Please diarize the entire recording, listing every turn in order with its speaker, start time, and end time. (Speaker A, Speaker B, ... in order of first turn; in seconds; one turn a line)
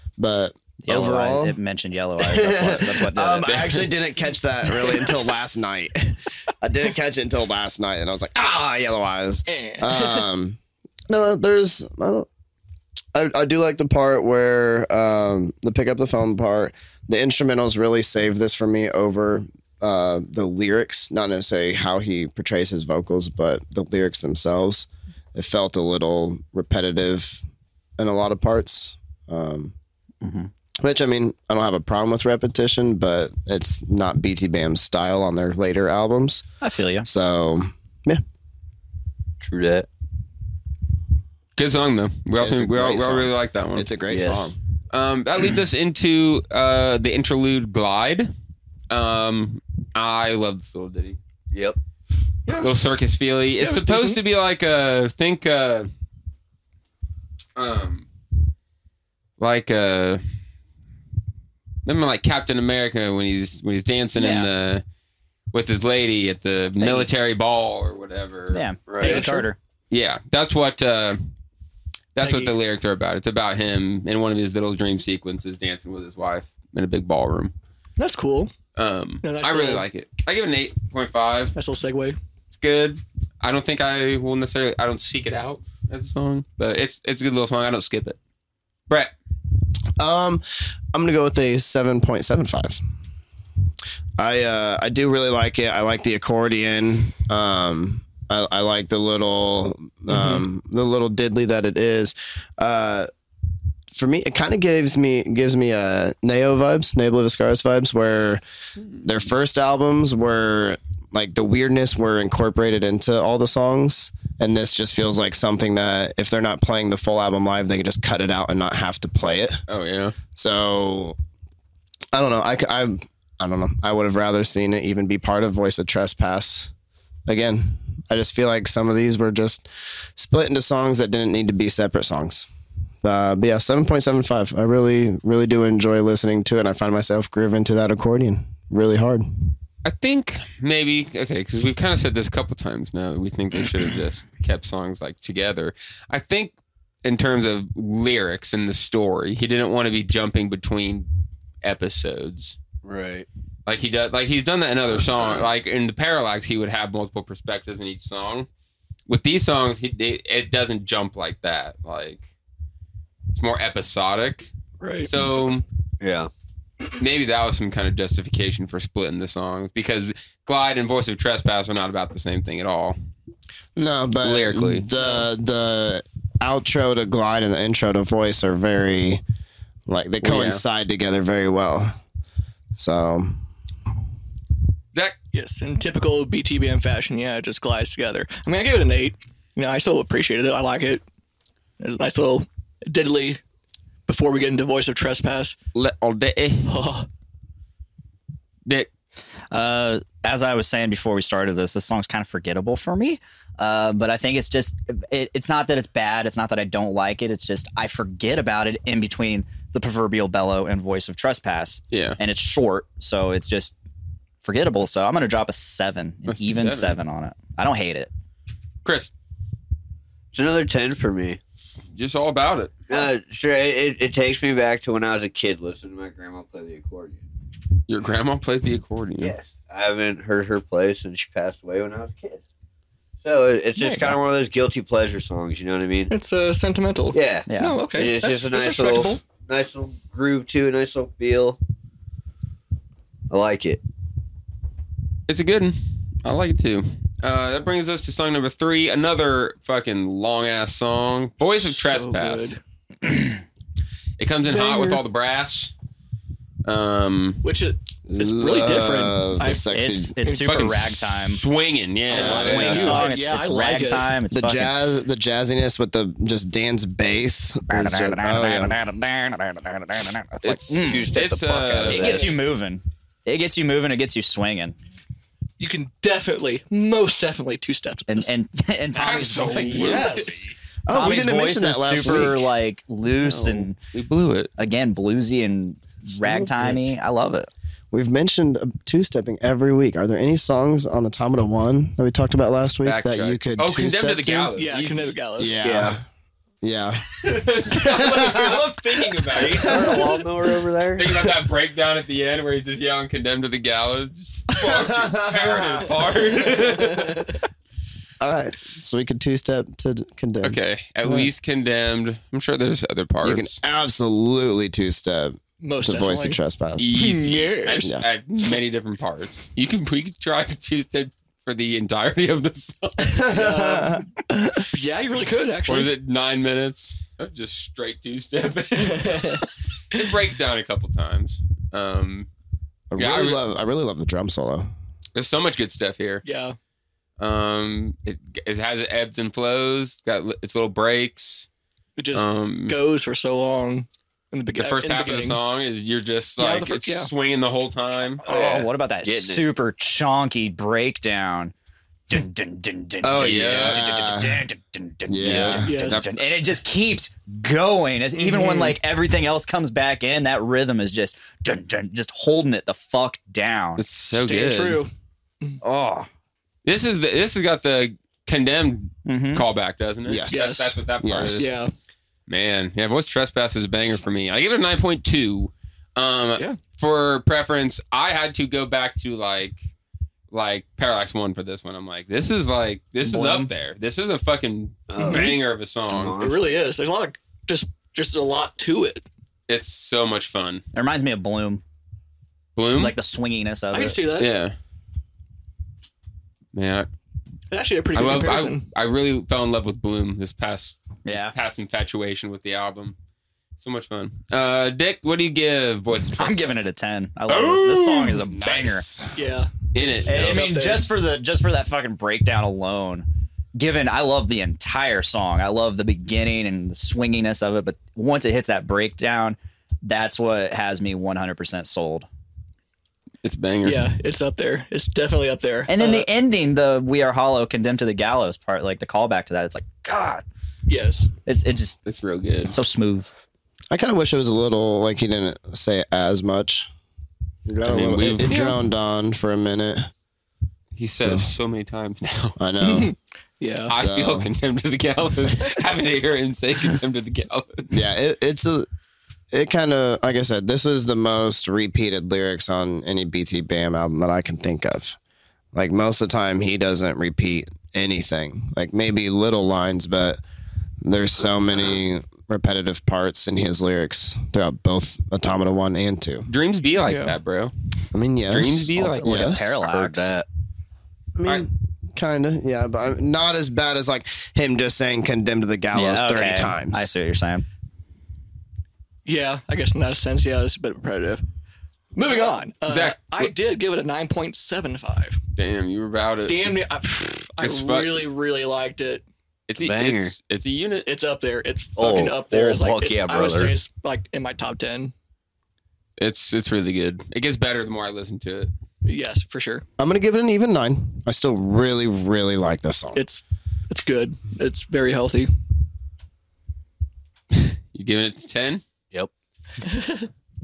Speaker A: 0.2-1.6
Speaker B: 0.8-3.6
Speaker A: 2.2-10.6
Speaker C: 3.4-3.9
Speaker D: 9.5-10.2
Speaker A: 11.1-12.3
Speaker A: 13.1-27.4
Speaker A: 28.0-29.7
Speaker B: 30.2-30.5
Speaker A: 30.8-36.4
Speaker B: 36.6-37.1
Speaker A: 37.0-38.2
Speaker E: 39.4-39.9
Speaker C: 41.6-48.3
Speaker A: 42.4-44.5
Speaker E: 44.1-44.5
Speaker C: 48.9-51.2
Speaker E: 51.5-51.8
Speaker D: 52.5-52.8
Speaker C: 52.5-55.9
Speaker D: 53.6-54.2
Speaker C: 57.5-58.0
Speaker C: 59.4-60.2
Speaker C: 61.8-64.8
Speaker B: 64.2-64.5
Speaker C: 65.5-68.6
Speaker B: 66.8-67.1
Speaker B: 68.5-69.6
Speaker E: 68.9-69.2
Speaker D: 69.0-69.5
Speaker C: 69.9-71.3
Speaker C: 72.1-77.5
Speaker D: 72.2-72.5
Speaker D: 78.0-78.5
Speaker C: 78.8-81.5
Speaker D: 79.2-79.8
Speaker D: 81.5-82.2
Speaker C: 82.5-88.2
Speaker A: 90.0-92.8
Speaker A: 94.2-103.1
Speaker D: 100.1-100.4
Speaker A: 103.9-108.4
Speaker A: 109.0-119.6
Speaker C: 119.7-120.2
Speaker A: 120.3-121.2
Speaker A: 122.1-126.7
Speaker A: 127.3-132.5
Speaker A: 133.0-139.5
Speaker C: 139.8-151.1
Speaker C: 151.6-152.6
Speaker E: 152.8-153.2
Speaker C: 153.7-158.5
Speaker C: 159.1-162.2
Speaker C: 163.3-164.5
Speaker D: 164.8-165.1
Speaker C: 165.0-165.6
Speaker E: 166.0-166.3
Speaker C: 167.0-172.9
Speaker A: 173.8-179.2
Speaker C: 174.2-174.8
Speaker D: 175.0-175.2
Speaker A: 179.9-182.0
Speaker C: 180.2-180.6
Speaker A: 182.8-183.4
Speaker D: 185.3-191.0
Speaker D: 191.8-193.4
Speaker D: 194.1-195.6
Speaker C: 195.8-196.8
Speaker D: 196.7-197.1
Speaker B: 199.5-213.7
Speaker C: 211.9-212.2
Speaker B: 214.4-218.1
Speaker C: 216.3-217.0
Speaker C: 218.8-219.1
Speaker E: 220.3-221.4
Speaker C: 221.9-222.9
Speaker E: 222.9-227.2
Speaker C: 227.9-229.3
Speaker E: 229.2-232.4
Speaker E: 233.2-236.1
Speaker D: 233.8-234.2
Speaker D: 236.1-239.2
Speaker E: 237.1-241.6
Speaker B: 237.5-237.8
Speaker E: 243.3-243.8
Speaker C: 245.3-252.6
Speaker D: 251.7-252.6
Speaker C: 254.2-255.7
Speaker D: 254.4-255.0
Speaker C: 256.6-257.4
Speaker D: 257.4-259.7
Speaker A: 258.1-260.1
Speaker B: 259.7-261.4
Speaker D: 260.2-260.7
Speaker C: 260.4-263.0
Speaker B: 262.1-264.8
Speaker A: 262.1-263.0
Speaker D: 262.1-264.1
Speaker E: 262.3-262.8
Speaker A: 264.3-268.8
Speaker B: 267.7-271.1
Speaker C: 270.4-272.3
Speaker E: 270.8-272.4
Speaker B: 271.8-274.8
Speaker D: 272.1-272.3
Speaker D: 275.6-278.3
Speaker B: 278.1-280.2
Speaker C: 278.9-280.5
Speaker D: 279.8-280.3
Speaker A: 279.8-280.3
Speaker A: 280.9-282.5
Speaker B: 280.9-283.8
Speaker C: 283.2-284.5
Speaker B: 284.6-287.5
Speaker A: 286.2-286.9
Speaker A: 287.9-294.5
Speaker C: 292.8-295.1
Speaker D: 294.6-295.6
Speaker A: 295.4-296.0
Speaker E: 295.6-296.0
Speaker A: 296.6-297.1
Speaker C: 297.2-300.2
Speaker A: 297.6-298.6
Speaker E: 299.3-301.3
Speaker A: 299.5-300.1
Speaker C: 301.0-307.3
Speaker A: 304.5-305.9
Speaker D: 306.4-307.3
Speaker A: 308.2-311.3
Speaker C: 310.4-313.6
Speaker A: 313.2-316.9
Speaker D: 315.6-316.4
Speaker C: 316.8-323.3
Speaker D: 316.9-317.9
Speaker A: 323.0-324.7
Speaker D: 323.2-324.0
Speaker D: 324.7-325.9
Speaker C: 325.6-332.3
Speaker D: 328.8-329.4
Speaker A: 332.9-334.7
Speaker C: 333.0-333.4
Speaker C: 335.1-336.2
Speaker D: 336.2-336.6
Speaker C: 337.2-341.5
Speaker D: 342.0-345.4
Speaker C: 342.1-342.8
Speaker C: 344.6-348.2
Speaker D: 346.4-347.1
Speaker B: 348.2-351.5
Speaker E: 348.2-349.4
Speaker B: 352.1-363.8
Speaker A: 353.0-354.4
Speaker C: 353.1-353.8
Speaker A: 355.1-355.7
Speaker C: 355.2-356.2
Speaker D: 355.6-356.0
Speaker D: 358.1-358.8
Speaker C: 363.8-364.8
Speaker D: 364.2-364.9
Speaker B: 365.6-366.1
Speaker C: 366.6-371.5
Speaker B: 369.1-369.5
Speaker A: 370.1-371.5
Speaker D: 370.3-370.8
Speaker D: 371.4-371.7
Speaker C: 372.3-379.6
Speaker C: 380.3-386.1
Speaker B: 383.0-383.5
Speaker E: 384.9-385.4
Speaker D: 385.0-385.4
Speaker E: 385.9-386.5
Speaker D: 386.2-389.0
Speaker C: 389.5-390.6
Speaker B: 390.7-391.6
Speaker C: 392.6-392.9
Speaker B: 392.8-394.0
Speaker D: 393.7-394.3
Speaker C: 394.1-394.5
Speaker C: 396.5-396.9
Speaker D: 397.5-398.6
Speaker C: 397.9-403.0
Speaker B: 401.0-401.3
Speaker C: 403.6-406.5
Speaker B: 406.2-408.9
Speaker C: 407.3-408.2
Speaker A: 408.2-409.2
Speaker D: 409.1-410.9
Speaker C: 409.7-410.5
Speaker B: 410.1-422.1
Speaker C: 423.2-423.9
Speaker D: 423.6-426.1
Speaker B: 425.7-430.2
Speaker D: 430.7-431.1
Speaker B: 431.2-431.8
Speaker C: 431.9-432.6
Speaker B: 432.5-433.1
Speaker A: 433.7-436.7
Speaker A: 437.5-439.9
Speaker C: 437.6-438.5
Speaker D: 438.2-438.6
Speaker C: 440.8-442.4
Speaker A: 441.0-441.3
Speaker A: 442.4-442.9
Speaker D: 442.6-443.7
Speaker C: 443.7-447.7
Speaker A: 443.7-444.3
Speaker A: 447.7-448.7
Speaker A: 449.3-455.0
Speaker A: 455.5-460.2
Speaker A: 460.8-466.3
Speaker C: 466.3-467.5
Speaker D: 466.9-467.1
Speaker A: 467.9-469.5
Speaker C: 468.3-469.4
Speaker B: 468.8-470.1
Speaker E: 469.6-470.2
Speaker A: 471.1-476.9
Speaker B: 475.7-477.4
Speaker D: 479.0-481.2
Speaker D: 481.9-485.2
Speaker C: 482.7-483.3
Speaker C: 485.4-486.6
Speaker D: 486.2-489.0
Speaker C: 487.4-488.1
Speaker C: 489.5-490.9
Speaker E: 489.6-490.1
Speaker D: 490.9-494.9
Speaker E: 491.8-493.6
Speaker C: 496.0-498.5
Speaker D: 498.8-499.6
Speaker A: 499.8-503.0
Speaker D: 502.9-505.3
Speaker C: 507.3-508.6
Speaker D: 509.6-510.1